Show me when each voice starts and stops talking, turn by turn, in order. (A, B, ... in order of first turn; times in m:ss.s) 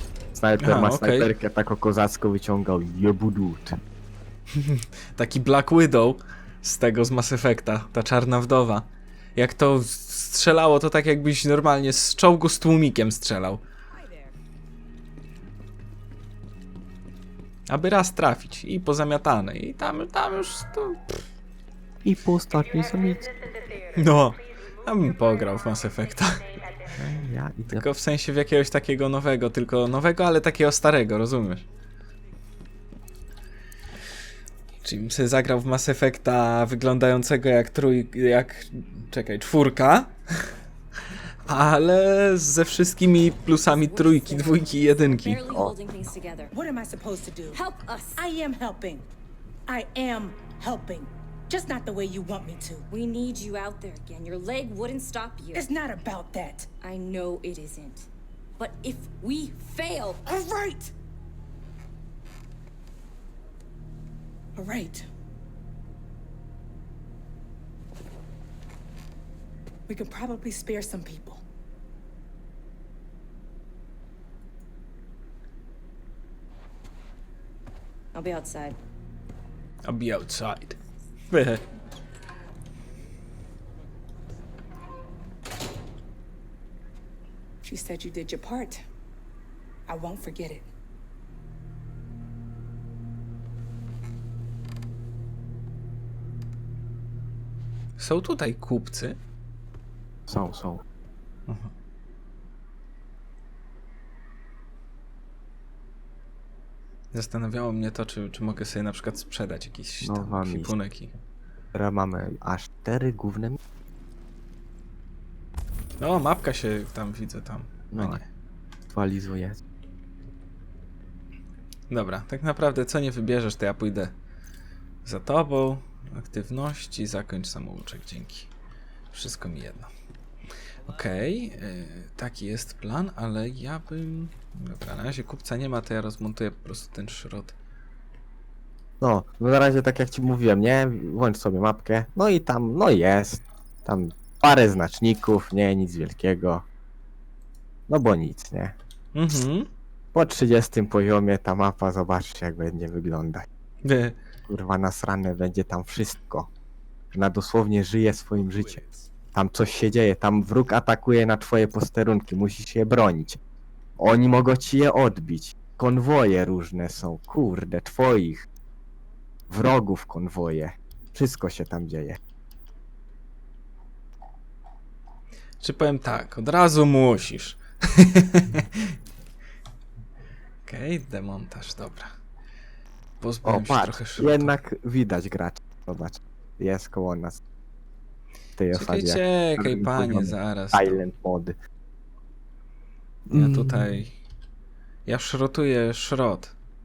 0:00.3-0:03.8 A
0:00.6-0:01.3 B
0:04.5-0:13.6 B
0:14.0-0:14.3 C
0:17.7-0:21.2 B
0:22.0-0:23.3 A
0:23.9-0:26.6 B
0:26.9-0:27.9 A
0:27.7-0:31.6 B
0:34.8-0:40.2 B
0:41.5-0:45.4 B
0:43.7-0:46.5 C
0:45.4-0:45.7 A
0:46.5-0:49.1 D
0:47.5-0:48.2 C
0:49.7-0:52.9 D
0:52.9-0:55.7 C
0:55.5-0:56.8 D
0:56.8-1:00.2 C
1:00.2-1:00.9 D
1:04.6-1:05.0 D
1:09.9-1:11.4 D
1:18.1-1:18.8 C
1:19.8-1:20.8 B
1:21.3-1:21.6 B
1:27.6-1:28.8 D
1:29.9-1:30.7 D
1:38.0-1:39.2 B
1:40.3-1:40.8 A
1:41.5-1:41.7 B
1:47.1-1:51.2 B
1:50.0-1:50.7 A
1:51.7-1:53.6 A
1:56.0-1:58.2 B
1:57.9-1:58.2 A
1:58.9-1:59.6 A
2:01.9-2:04.1 B
2:05.0-2:08.5 B
2:09.1-2:09.9 B
2:10.8-2:17.5 B
2:19.0-2:26.6 A
2:27.9-2:28.7 A
2:29.1-2:29.7 B
2:30.1-2:33.5 A
2:33.8-2:34.2 B
2:34.5-2:36.5 A
2:37.1-2:43.4 A
2:44.0-2:48.5 A
2:49.5-2:52.2 A
2:55.6-2:58.9 B
3:00.6-3:02.1 B
3:03.2-3:04.5 B
3:03.4-3:07.4 A
3:08.6-3:11.6 A
3:08.7-3:11.0 B
3:13.3-3:13.9 A
3:13.3-3:14.1 B
3:15.0-3:16.5 B